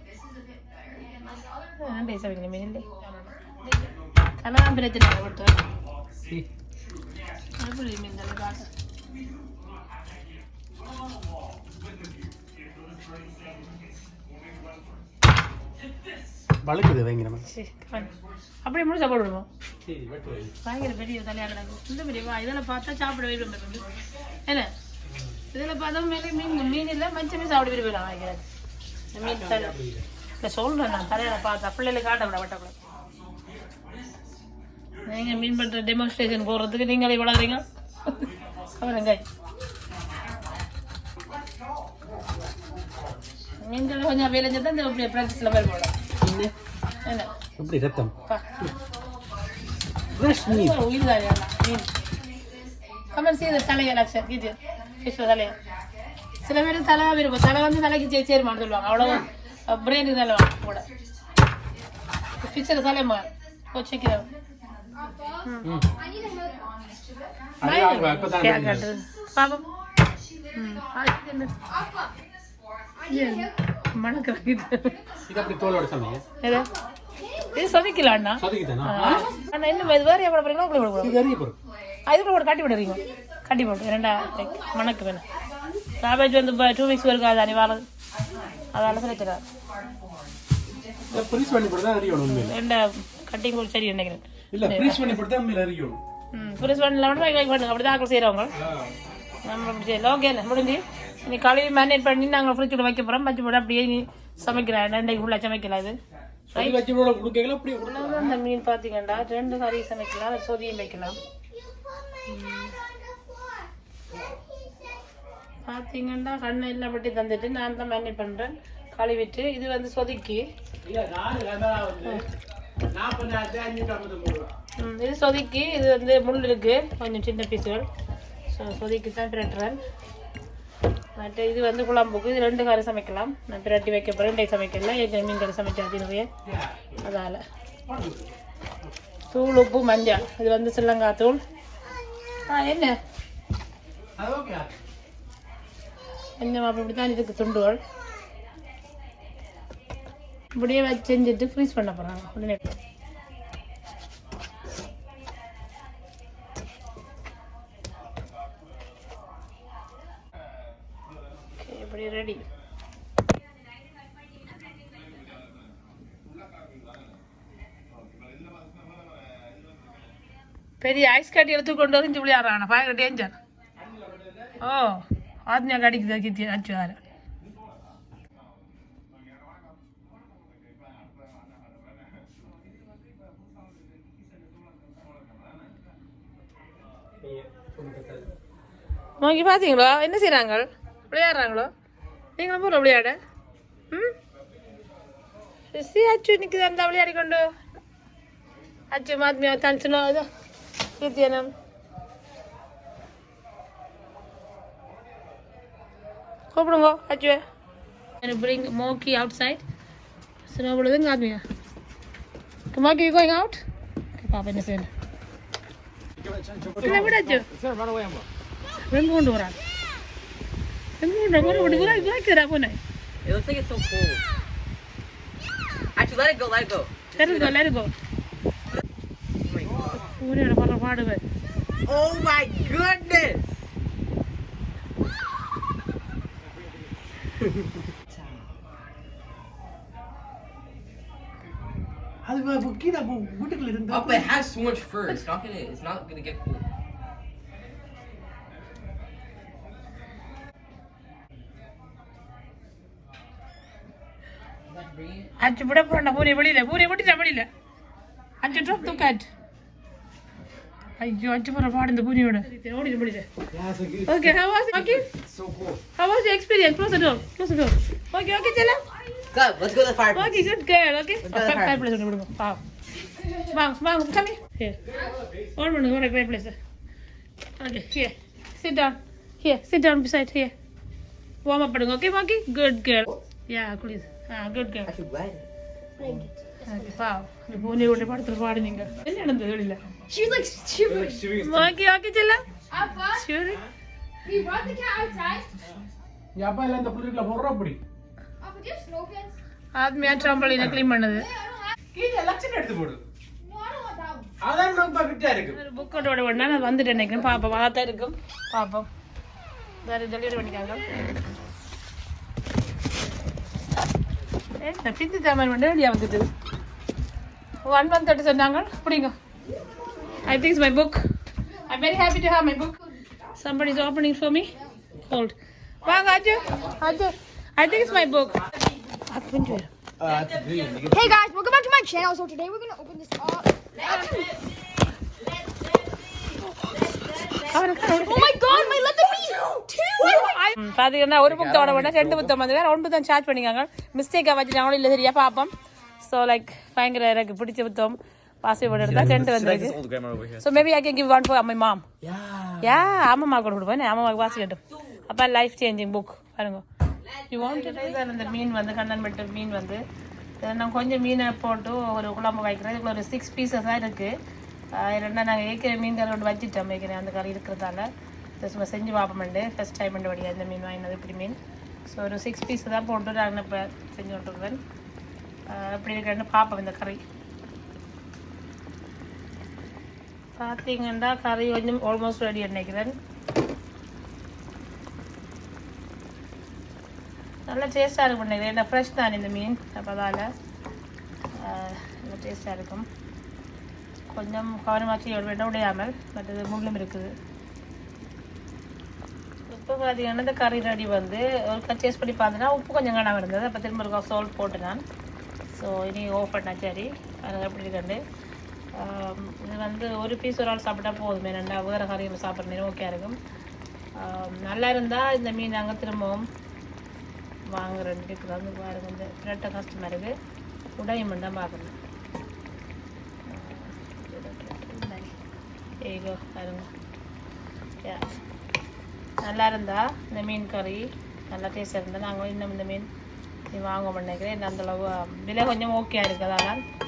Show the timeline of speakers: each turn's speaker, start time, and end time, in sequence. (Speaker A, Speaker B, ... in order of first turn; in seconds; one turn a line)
Speaker A: 1.1-2.9
Speaker A: 4.4-5.6
Speaker A: 7.6-8.7
Speaker B: 16.6-17.4
Speaker A: 17.5-18.1
Speaker A: 18.6-19.5
Speaker B: 19.8-20.5
Speaker A: 20.6-23.9
Speaker B: 25.1-25.4
Speaker A: 25.5-28.4
Speaker A: 29.1-29.7
Speaker B: 29.2-30.1
Speaker A: 30.4-32.7
Speaker A: 35.0-38.2
Speaker A: 38.8-39.2
Speaker A: 43.6-45.9
Speaker B: 46.2-46.5
Speaker A: 47.1-47.3
Speaker B: 47.6-48.7
Speaker B: 50.1-50.8
Speaker A: 50.2-51.9
Speaker A: 53.1-55.5
Speaker A: 56.4-60.9
Speaker A: 62.4-64.3
Speaker C: 65.0-67.2
Speaker B: 65.6-65.9
Speaker B: 67.6-68.9
Speaker A: 67.6-69.7
Speaker A: 70.5-71.6
Speaker C: 71.7-72.1
Speaker C: 73.0-73.8
Speaker A: 73.1-75.0
Speaker B: 75.3-76.2
Speaker A: 76.4-76.7
Speaker C: 76.5-78.1
Speaker A: 77.5-81.2
Speaker B: 78.4-79.3
Speaker C: 79.1-79.4
Speaker B: 81.0-81.6
Speaker A: 82.1-85.2
Speaker C: 84.2-85.1
Speaker A: 86.0-87.8
Speaker A: 88.7-89.4
Speaker B: 91.1-92.6
Speaker A: 92.3-95.1
Speaker B: 94.5-96.0
Speaker A: 96.3-98.5
Speaker B: 98.6-98.9
Speaker A: 99.5-106.0
Speaker B: 106.5-108.4
Speaker A: 106.5-106.8
Speaker A: 107.9-111.2
Speaker C: 111.5-115.0
Speaker A: 112.3-112.8
Speaker A: 115.7-120.5
Speaker B: 120.8-122.2
Speaker B: 122.9-124.5
Speaker A: 124.8-127.9
Speaker A: 128.5-129.8
Speaker A: 131.2-136.3
Speaker B: 136.4-137.0
Speaker A: 137.0-137.4
Speaker B: 137.9-138.9
Speaker A: 139.3-141.4
Speaker A: 142.5-142.9
Speaker B: 144.2-144.7
Speaker A: 146.4-147.8
Speaker A: 150.6-152.8
Speaker A: 161.6-162.4
Speaker A: 170.8-173.3
Speaker B: 173.8-174.6
Speaker A: 174.6-177.0
Speaker B: 187.2-188.3
Speaker A: 189.2-191.7
Speaker A: 192.4-193.2
Speaker A: 195.7-197.4
Speaker A: 198.9-200.3
Speaker A: 201.0-201.5
Speaker A: 206.5-207.4
Speaker A: 208.2-209.6
Speaker A: 210.5-211.4
Speaker A: 212.7-213.6
Speaker A: 214.2-214.9
Speaker D: 216.2-218.3
Speaker A: 216.8-217.5
Speaker A: 218.9-219.6
Speaker A: 221.0-222.8
Speaker E: 221.6-222.1
Speaker E: 223.2-224.2
Speaker E: 226.0-227.6
Speaker A: 227.1-227.9
Speaker E: 229.4-230.0
Speaker A: 230.2-231.2
Speaker E: 231.9-233.4
Speaker E: 238.1-238.5
Speaker B: 242.2-244.3
Speaker E: 243.9-246.7
Speaker E: 254.7-255.3
Speaker A: 255.4-257.5
Speaker A: 258.4-259.3
Speaker A: 261.0-263.3
Speaker D: 263.5-265.8
Speaker A: 264.1-265.1
Speaker A: 266.0-268.8
Speaker E: 269.3-270.5
Speaker A: 270.1-272.6
Speaker E: 271.2-271.9
Speaker A: 273.3-274.8
Speaker A: 275.6-276.6
Speaker A: 277.6-280.5
Speaker A: 281.5-284.9
Speaker E: 284.9-285.5
Speaker C: 286.0-286.9
Speaker A: 286.7-289.8
Speaker C: 290.1-291.4
Speaker B: 290.9-291.2
Speaker D: 291.0-291.6
Speaker A: 291.4-292.4
Speaker C: 292.7-293.3
Speaker A: 293.1-293.6
Speaker C: 294.2-295.6
Speaker B: 296.4-297.8
Speaker C: 298.4-299.4
Speaker A: 299.8-301.3
Speaker C: 300.0-300.7
Speaker C: 301.2-301.7
Speaker B: 301.9-303.0
Speaker C: 303.4-304.3
Speaker B: 304.4-305.6
Speaker A: 305.5-308.9
Speaker C: 305.8-307.4
Speaker A: 309.9-310.9
Speaker A: 314.6-316.3
Speaker A: 317.7-319.1
Speaker C: 319.5-320.1
Speaker A: 320.2-321.0
Speaker A: 321.6-322.8
Speaker A: 323.4-328.4
Speaker C: 326.2-326.8
Speaker E: 327.7-328.1
Speaker A: 329.1-329.7
Speaker D: 330.0-331.2
Speaker E: 330.2-330.8
Speaker C: 330.9-334.4
Speaker E: 333.8-334.4
Speaker E: 335.4-335.9
Speaker E: 336.5-338.1
Speaker A: 337.5-338.4
Speaker C: 337.8-340.5
Speaker A: 340.0-349.8
Speaker D: 341.2-342.4
Speaker B: 348.7-349.2
Speaker D: 348.8-350.6
Speaker A: 350.4-351.8
Speaker E: 352.1-352.8
Speaker A: 352.6-356.6
Speaker E: 357.1-358.5
Speaker A: 357.3-359.8
Speaker A: 360.4-364.1
Speaker A: 364.8-367.9
Speaker A: 368.4-374.6
Speaker A: 375.5-377.0
Speaker A: 380.4-382.9
Speaker A: 387.5-390.3
Speaker A: 391.4-392.9
Speaker A: 394.1-397.1
Speaker A: 399.5-404.8
Speaker A: 405.5-408.0
Speaker A: 408.8-413.2
Speaker A: 414.0-416.2
Speaker A: 417.5-420.1
Speaker A: 420.8-421.7
Speaker A: 423.3-425.1
Speaker A: 425.8-426.7
Speaker A: 427.8-428.1
Speaker A: 429.2-432.9
Speaker A: 433.5-436.6